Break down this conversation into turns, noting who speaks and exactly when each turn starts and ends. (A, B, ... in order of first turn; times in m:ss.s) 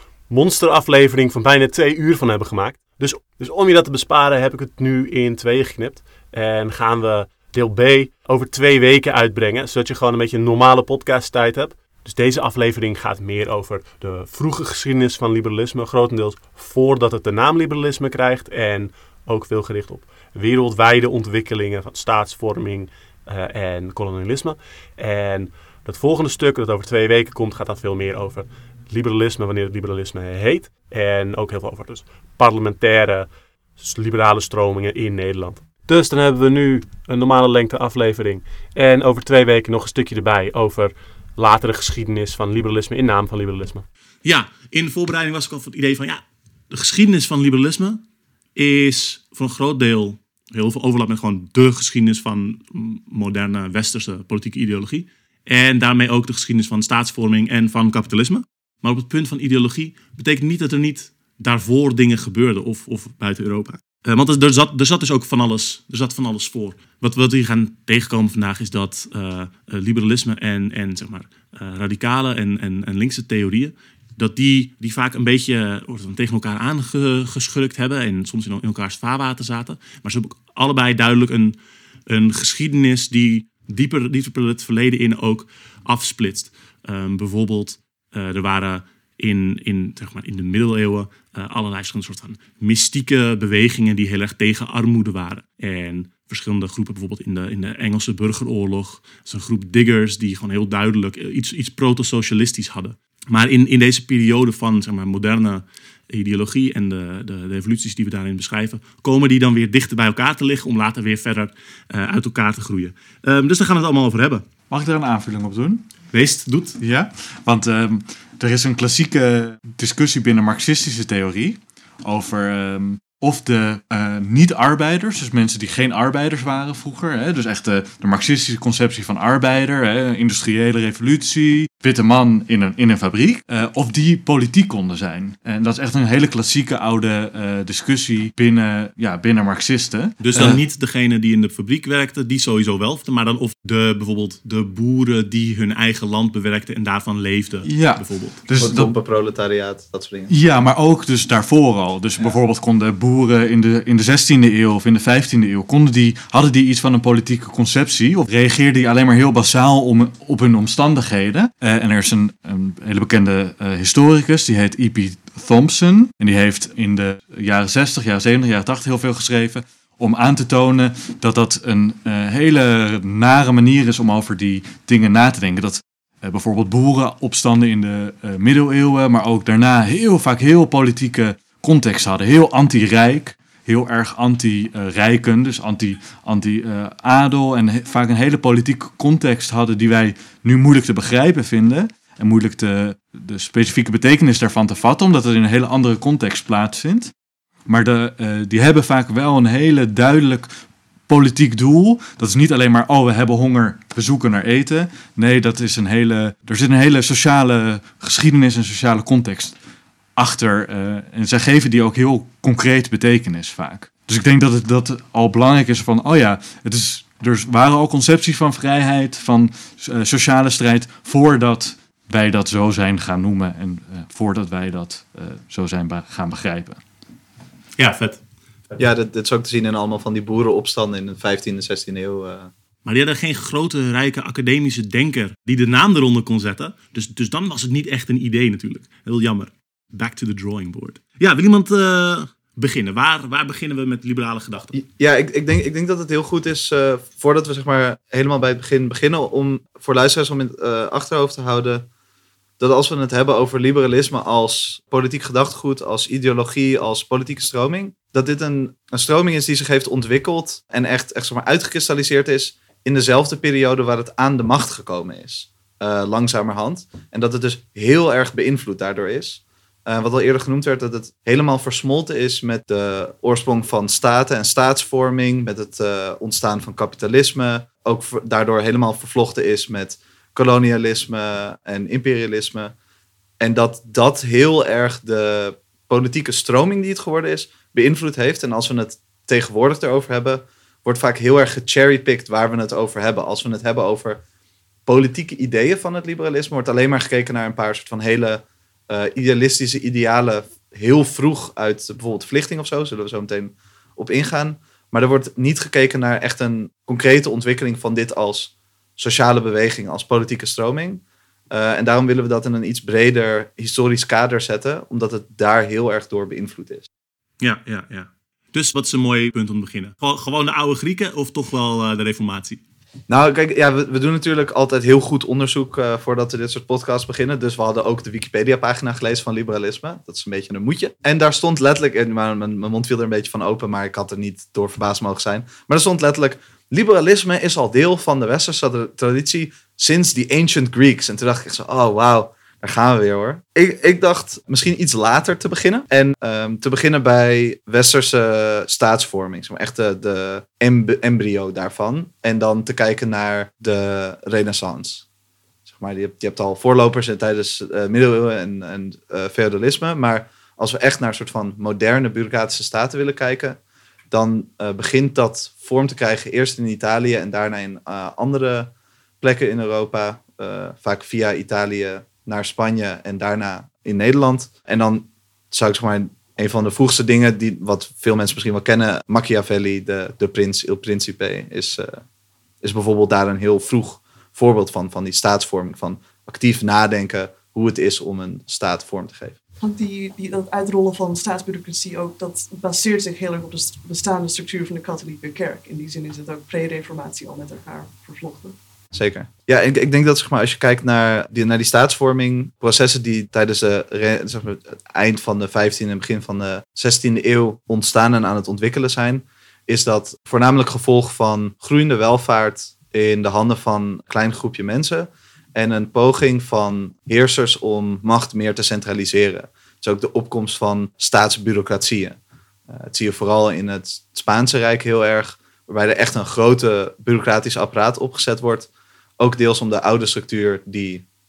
0:00.3-0:43.9 A
0:44.2-0:48.0 B
0:48.6-1:21.6 B
1:22.1-1:54.4 B
1:54.7-1:55.9 C
1:56.1-1:56.8 B
1:56.8-2:20.6 C
2:20.2-2:28.4 B
2:27.6-2:28.9 C
2:28.6-2:30.3 D
2:30.3-3:17.1 C
3:17.7-3:20.5 C
3:21.1-3:29.6 C
3:30.2-3:46.8 C
3:47.8-3:48.8 B
3:48.8-3:52.5 D
3:52.8-4:04.8 B
4:04.8-4:11.9 D
4:12.6-4:42.7 D
4:43.4-4:54.2 D
4:54.9-5:16.9 D
5:17.4-5:22.6 B
5:23.1-5:55.0 D
5:55.7-6:03.6 D
6:04.1-6:22.0 D
6:22.6-6:29.4 D
6:29.6-6:38.6 E
6:38.9-7:02.2 D
7:02.7-7:08.7 D
7:09.2-7:11.0 D